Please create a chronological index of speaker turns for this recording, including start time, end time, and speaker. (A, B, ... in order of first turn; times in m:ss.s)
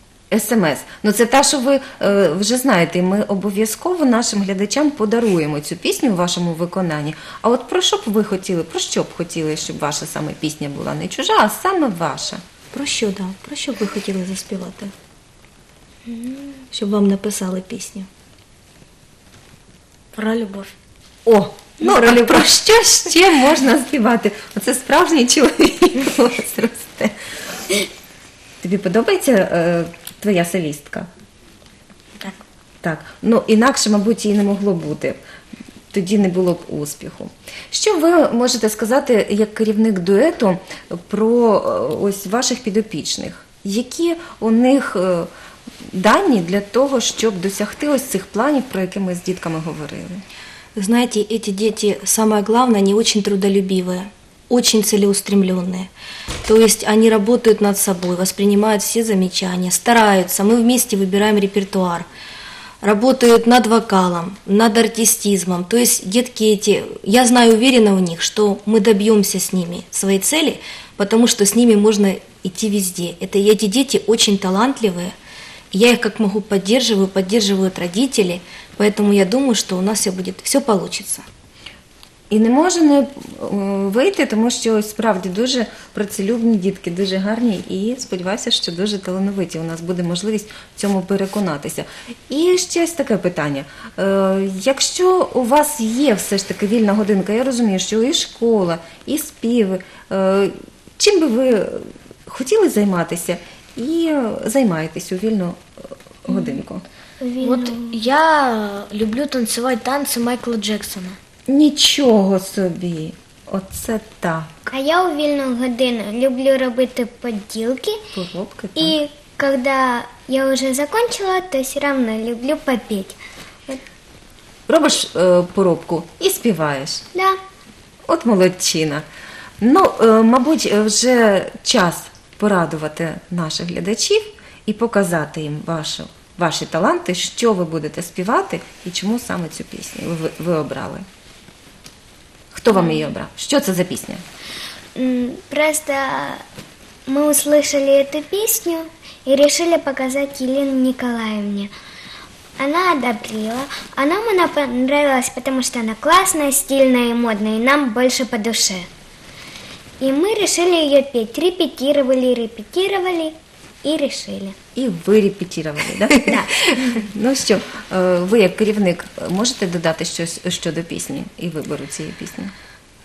0:00.3-0:12.4 A
0:12.7-0:14.9 B
0:16.1-0:16.5 C
0:16.7-0:18.1 B
0:20.1-0:20.7 D
0:21.2-0:27.1 A
0:21.8-0:22.5 B
0:28.6-0:31.1 A
0:32.8-0:35.2 A
0:35.9-0:45.3 A
0:45.9-0:50.2 A
0:50.8-0:55.9 B
0:56.4-1:02.1 B
1:02.8-1:15.1 B
1:15.7-1:21.2 B
1:22.3-1:45.6 A
1:46.2-1:46.8 A
1:47.2-1:48.0 C
1:47.4-1:51.2 D
1:51.5-1:54.7 A
1:54.7-1:58.0 C
1:58.1-1:59.0 A
1:58.8-2:03.8 C
2:04.7-2:07.0 A
2:08.1-2:09.0 A
2:09.6-2:21.0 A
2:22.5-2:24.2 A
2:25.0-2:26.4 C
2:27.1-2:31.7 C
2:32.6-2:38.9 C
2:40.0-2:44.5 C
2:44.8-2:52.5 A
2:46.2-2:46.7 C